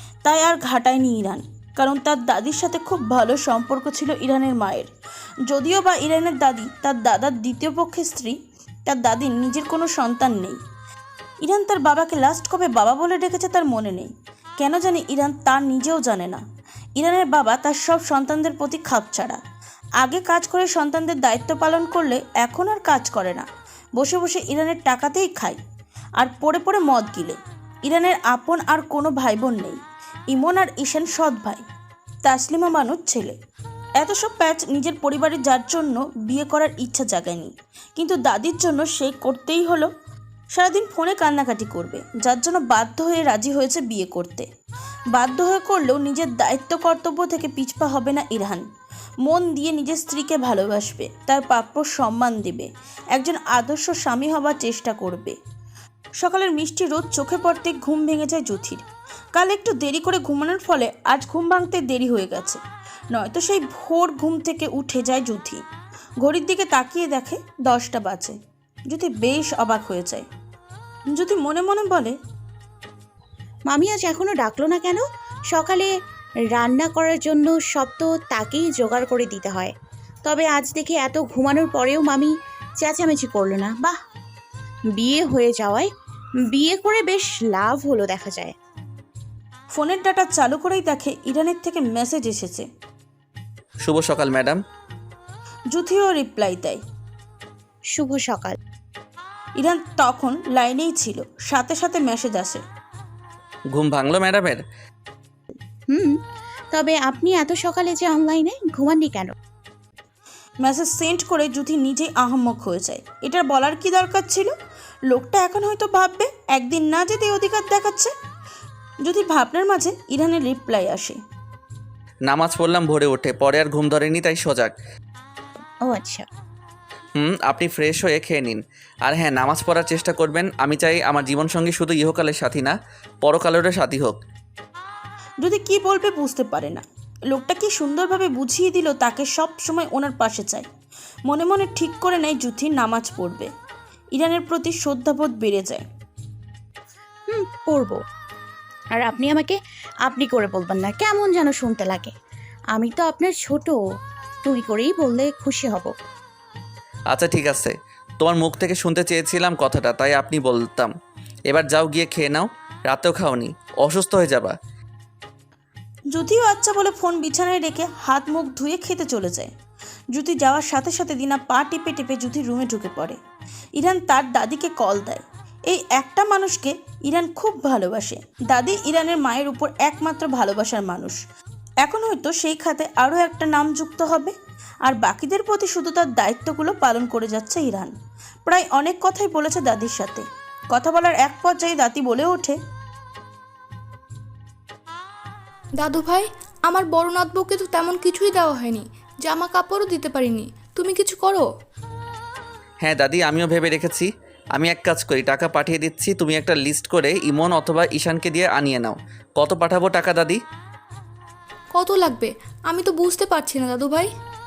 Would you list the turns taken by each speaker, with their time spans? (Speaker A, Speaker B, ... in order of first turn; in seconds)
Speaker A: 0.2-4.9, 5.5-8.4, 8.9-10.6, 11.4-16.4, 17.0-19.4, 20.0-23.5, 24.0-25.6, 26.2-29.8, 30.3-31.6, 32.2-33.4, 34.0-39.9, 40.5-44.5, 45.1-48.6, 49.3-55.4, 56.2-58.8, 59.4-62.6, 63.1-65.6, 66.2-68.4, 68.9-70.2, 71.1-72.2, 89.7-92.7, 95.7-96.8, 99.6-102.6, 110.6-114.5, 115.1-118.1, 119.0-121.2, 135.4-140.7, 141.3-143.5, 144.1-145.8, 166.1-169.5, 170.1-173.2, 173.8-181.2, 181.8-184.3, 184.9-187.9, 188.5-192.6
Speaker B: 73.7-75.0, 75.5-75.9, 76.5-79.7, 80.2-84.0, 85.0-85.9, 86.5-88.5, 97.9-98.6, 106.7-109.3, 125.9-126.3, 147.3-148.0, 149.0-152.1, 152.7-153.8, 154.4-155.9
Speaker C: 93.8-94.6, 103.7-104.6, 122.3-124.7, 127.2-134.2, 157.1-160.9, 161.5-164.5, 202.8-210.4
Speaker D: 195.8-201.5, 211.7-214.1